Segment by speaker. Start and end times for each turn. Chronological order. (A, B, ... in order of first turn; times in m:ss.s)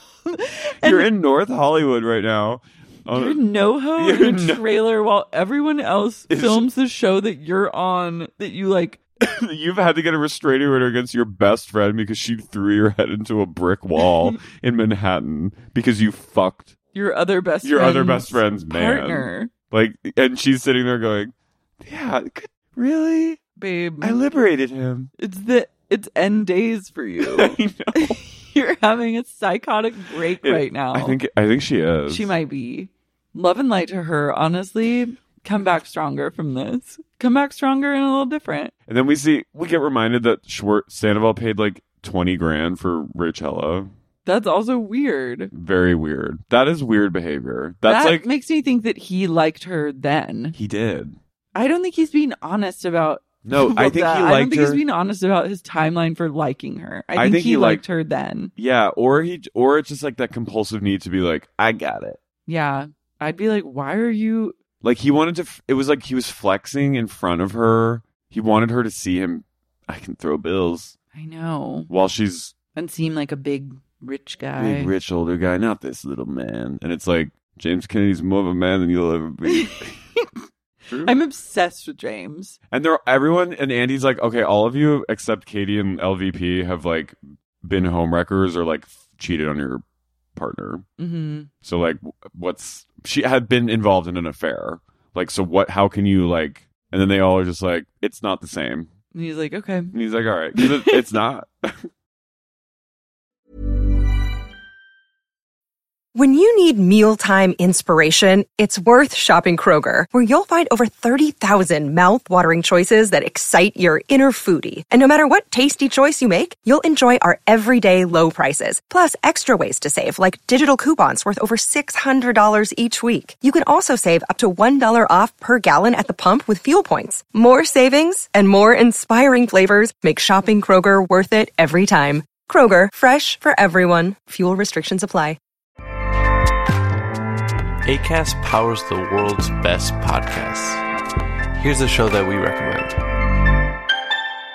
0:00.3-0:01.1 A
0:00.8-0:03.4 B
0:03.1-0:09.0 A
0:04.0-0:04.6 B
0:06.3-0:06.6 B
0:09.2-0:16.7 B
0:14.0-0:14.3 A
0:16.9-0:19.5 A
0:17.6-0:23.4 B
0:23.6-0:24.2 A
0:24.0-0:25.1 B
0:25.2-0:31.2 A
0:27.2-0:28.2 B
0:30.4-0:32.3 B
0:32.1-0:38.7 A
0:38.9-0:43.9 B
0:44.2-0:45.5 A
0:45.5-0:48.2 B
0:47.8-0:50.6 A
0:50.5-0:51.2 B
0:51.5-0:58.5 A
0:53.4-0:54.8 B
0:57.2-0:57.8 B
0:58.6-1:02.2 B
1:02.4-1:04.6 A
1:04.8-1:11.0 B
1:11.1-1:11.9 A
1:11.9-1:12.5 B
1:12.7-1:14.9 A
1:14.6-1:20.0 B
1:19.5-1:20.3 A
1:20.9-1:21.1 B
1:21.0-1:22.6 A
1:22.7-1:29.8 B
1:30.4-1:30.8 B
1:31.0-1:31.5 A
1:31.6-1:38.9 B
1:39.1-1:39.9 A
1:39.9-1:41.9 B
1:40.5-1:41.0 A
1:46.1-2:15.4 C
2:17.8-2:20.8 D
2:21.5-2:23.0 D